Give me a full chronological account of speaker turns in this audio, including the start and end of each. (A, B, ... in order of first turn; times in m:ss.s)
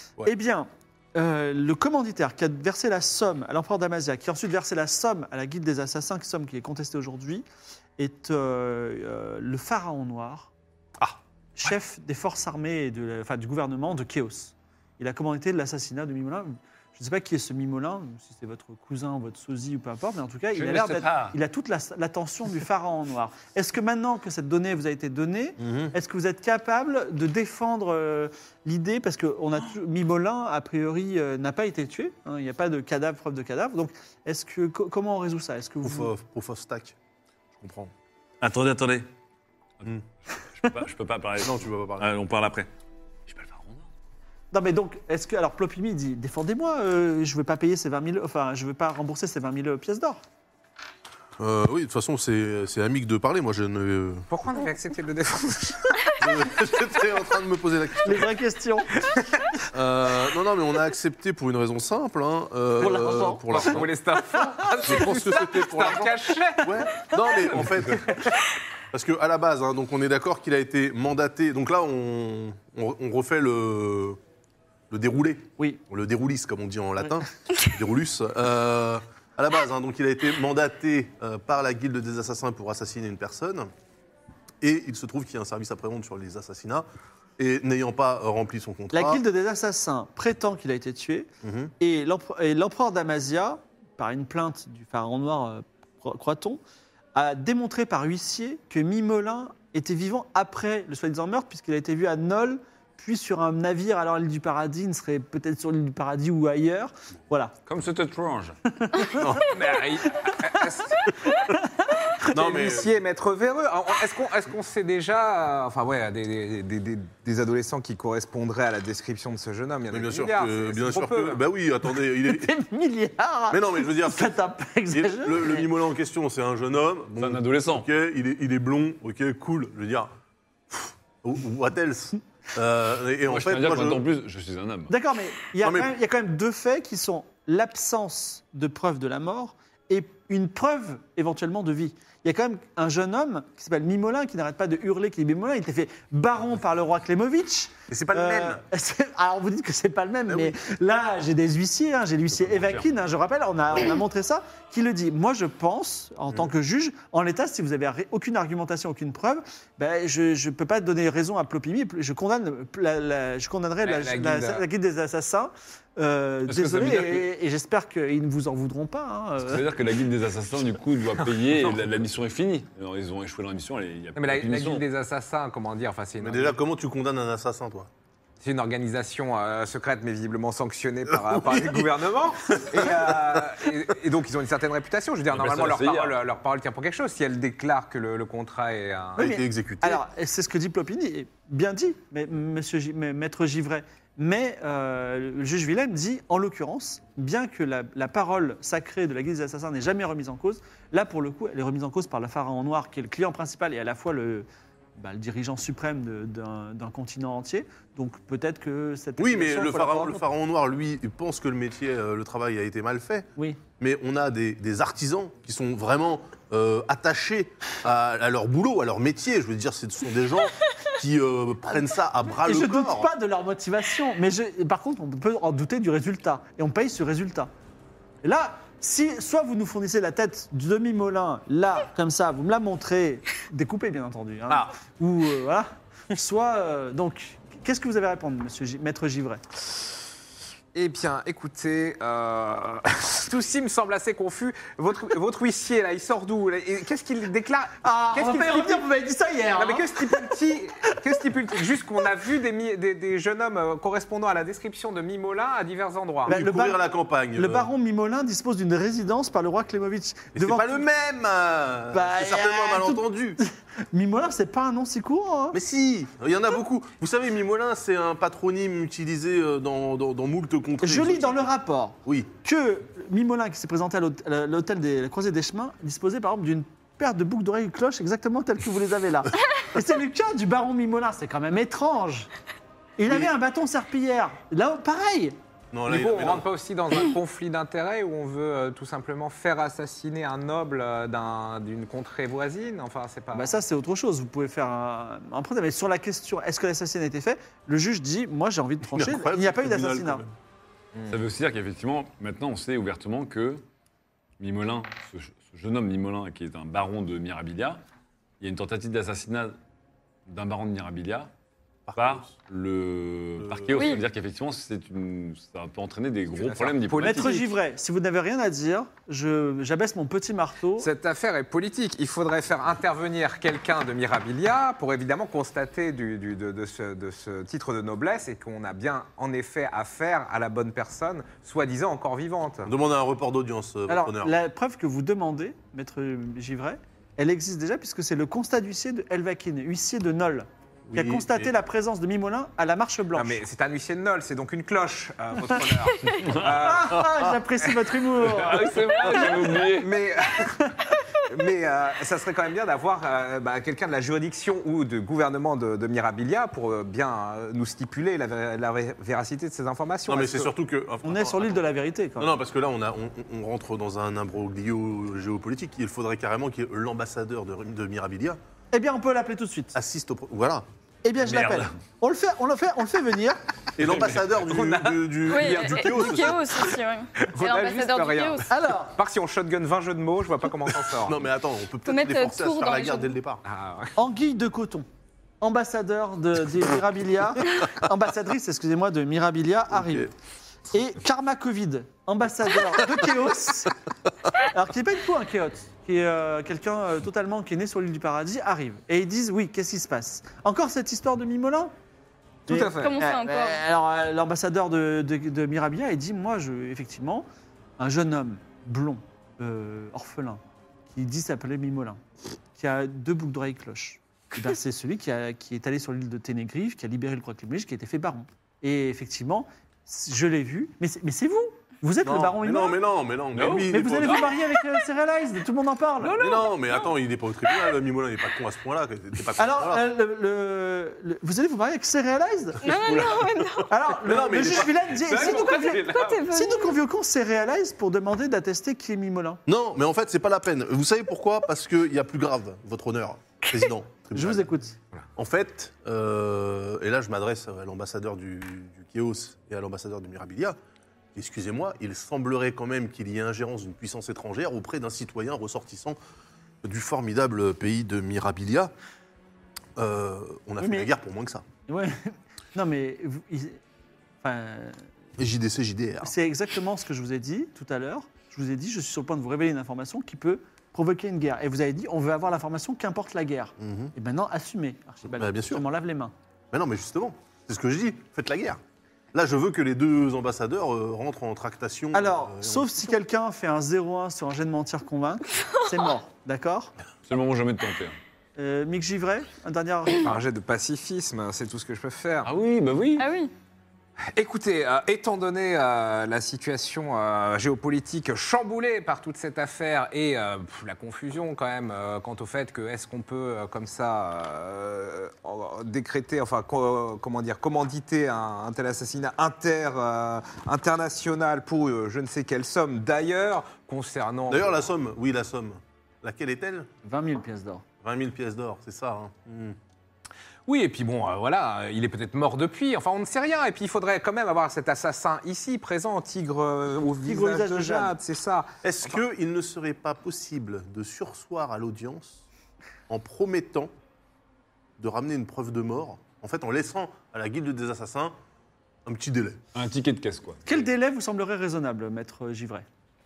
0:00.2-0:07.4 A
0:08.0-0:10.5 A
0:11.6-0:36.1 A
0:20.6-0:21.4 B
0:25.6-0:25.9 C
0:35.8-0:36.9 C
0:37.6-0:37.9 C
0:38.4-0:39.1 B
0:39.8-0:42.7 B
0:41.4-0:42.1 C
0:43.3-0:43.9 B
0:44.5-0:50.2 A
0:51.4-0:54.2 C
0:54.3-0:56.5 D
0:56.2-0:58.3 C
0:58.0-0:59.0 A
0:59.7-1:08.2 C
1:02.8-1:03.7 A
1:02.9-1:08.0 D
1:08.9-1:14.2 C
1:14.9-1:23.7 C
1:24.6-1:26.8 C
1:27.4-1:29.2 C
1:28.9-1:36.6 A
1:31.4-1:31.7 C
1:37.1-1:47.5 A
1:47.6-1:48.6 B
1:48.7-1:49.3 A
1:49.1-1:49.5 C
1:49.5-1:51.1 D
1:51.4-1:52.3 A
1:52.3-1:52.9 C
1:52.3-2:01.4 D
1:59.9-2:02.5 C
2:02.1-2:05.7 A
2:03.5-2:04.4 C
2:04.9-2:10.1 C
2:07.2-2:07.9 B
2:10.7-2:14.0 C
2:13.2-2:14.9 B
2:14.9-2:49.6 A
2:15.6-2:15.9 C
2:27.9-2:28.6 C
2:30.3-2:30.6 C
2:32.4-2:32.8 B
2:43.8-2:44.6 D
2:46.5-2:47.2 B
2:49.4-2:54.8 B
2:51.2-2:51.8 D
2:54.2-2:56.6 D
2:56.2-2:57.9 C
2:58.4-3:09.3 D
3:01.2-3:01.9 C
3:05.3-3:06.2 B
3:09.2-3:10.0 C
3:09.2-3:30.2 A
3:29.2-3:43.1 C
3:42.4-3:47.5 A
3:48.2-3:59.4 A
4:00.7-4:08.8 D
4:07.8-4:10.3 A
4:09.5-4:16.4 D
4:16.2-4:16.8 A
4:16.3-4:17.7 C
4:17.3-4:20.8 A
4:20.3-4:23.4 C
4:21.9-4:25.6 A
4:25.5-4:31.5 C
4:30.8-4:42.3 A
4:43.0-4:45.4 A
4:45.7-4:46.4 C
4:45.9-4:53.6 D
4:53.3-5:00.2 A
4:58.9-5:00.3 C
5:01.1-5:03.6 B
5:04.4-5:07.8 B
5:08.4-5:09.6 B
5:10.3-5:11.3 B
5:11.9-5:12.3 C
5:12.0-5:17.4 B
5:13.4-5:14.0 C
5:13.8-5:14.0 E
5:16.3-5:17.5 D
5:17.0-5:20.9 A
5:20.8-5:32.7 D
5:32.6-5:34.3 C
5:33.9-5:43.4 A
5:40.9-5:41.5 C
5:43.1-5:47.0 D
5:46.2-5:46.5 B
5:46.5-5:48.8 A
5:47.0-5:47.3 C
5:48.2-5:50.0 B
5:48.5-6:00.5 D
6:00.1-6:01.6 C
6:01.0-6:02.3 A
6:02.2-6:08.4 C
6:08.7-6:09.8 A
6:09.7-6:10.6 C
6:11.0-6:13.4 A
6:11.2-6:11.7 B
6:13.8-6:16.6 C
6:13.9-6:14.2 B
6:14.3-6:16.5 D
6:15.2-6:18.5 E
6:17.3-6:21.3 D
6:18.5-6:18.9 A
6:21.0-6:23.4 C
6:21.8-6:23.2 E
6:23.4-6:24.0 D
6:24.0-6:24.8 A
6:25.4-6:30.1 A
6:29.7-6:30.1 C
6:30.7-6:33.7 A
6:34.4-6:41.7 A
6:42.5-6:43.0 D
6:42.5-6:47.3 A
6:42.8-6:43.6 E
6:47.8-6:52.0 A
6:52.6-7:02.8 A
7:02.0-7:04.3 C
7:03.3-7:04.4 B
7:03.6-7:06.2 A
7:06.2-7:09.9 C
7:06.2-7:06.5 D
7:09.4-7:12.6 A
7:12.6-7:13.7 E
7:12.8-7:13.2 B
7:13.7-7:19.4 A
7:14.0-7:14.9 C
7:14.2-7:16.2 D
7:15.7-7:16.7 E
7:19.4-7:24.5 C
7:24.1-7:24.7 A
7:25.2-7:30.6 C
7:31.1-7:36.0 C
7:36.6-7:38.7 C
7:39.8-7:41.4 C
7:40.6-7:40.9 A
7:41.7-7:43.6 A
7:44.2-7:44.8 A
7:45.2-7:46.1 C
7:46.0-7:56.1 A
7:53.6-7:53.9 C
7:55.0-7:55.6 C
7:56.5-7:58.6 C
7:59.1-8:02.9 C
8:01.9-8:06.7 A
8:07.1-8:08.0 B
8:08.4-8:10.1 A
8:10.0-8:12.3 D
8:12.2-8:13.0 B
8:13.0-8:13.3 E
8:14.0-8:34.7 D
8:34.3-8:36.7 C
8:36.8-8:37.6 A
8:37.8-8:39.6 C
8:40.5-8:49.0 D
8:47.0-8:47.9 A
8:48.6-8:52.2 C
8:52.9-8:53.7 C
8:54.8-8:58.1 C
8:58.8-8:59.4 C
8:59.5-9:00.7 B
9:00.4-9:02.6 A